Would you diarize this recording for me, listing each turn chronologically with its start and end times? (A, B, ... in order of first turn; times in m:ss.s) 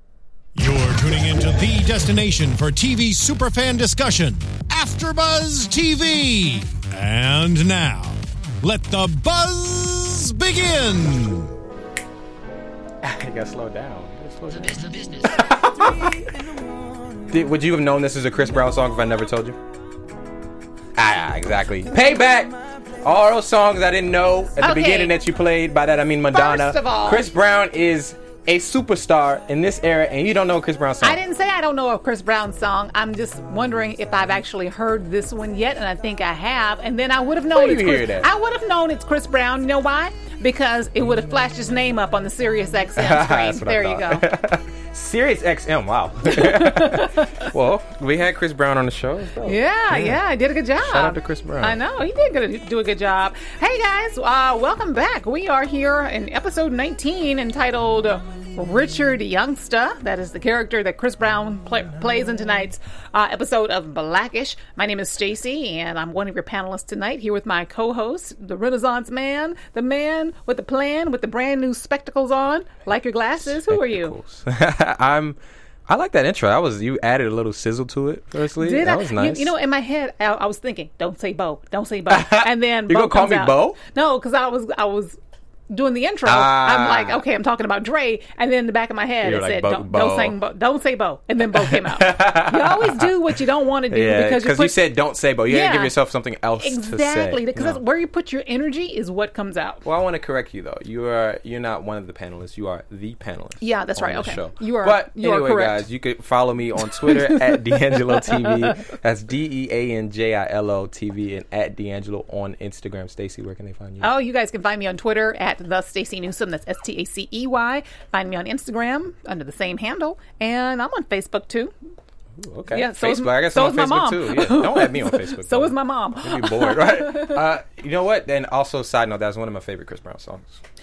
0:00.6-0:11.6 A
0:13.0-0:16.3 B
0:17.3-0:19.6 B
0:21.0-0:31.2 B
0:24.6-0:25.1 C
0:26.3-0:27.3 C
0:31.0-0:44.3 C
0:37.5-0:38.3 B
0:43.0-0:50.2 B
0:46.3-0:47.4 C
0:49.4-1:14.2 C
0:50.8-0:51.8 B
1:13.4-1:19.5 B
1:18.6-1:25.2 C
1:22.1-1:23.8 B
1:25.7-1:34.8 C
1:26.2-1:27.2 B
1:29.2-1:30.4 B
1:31.6-1:33.1 B
1:33.9-1:37.8 B
1:35.5-1:35.9 C
1:36.6-1:39.8 C
1:39.8-1:54.1 B
1:43.6-1:45.8 C
1:54.0-2:01.7 C
2:02.4-2:10.6 B
2:02.7-2:07.4 C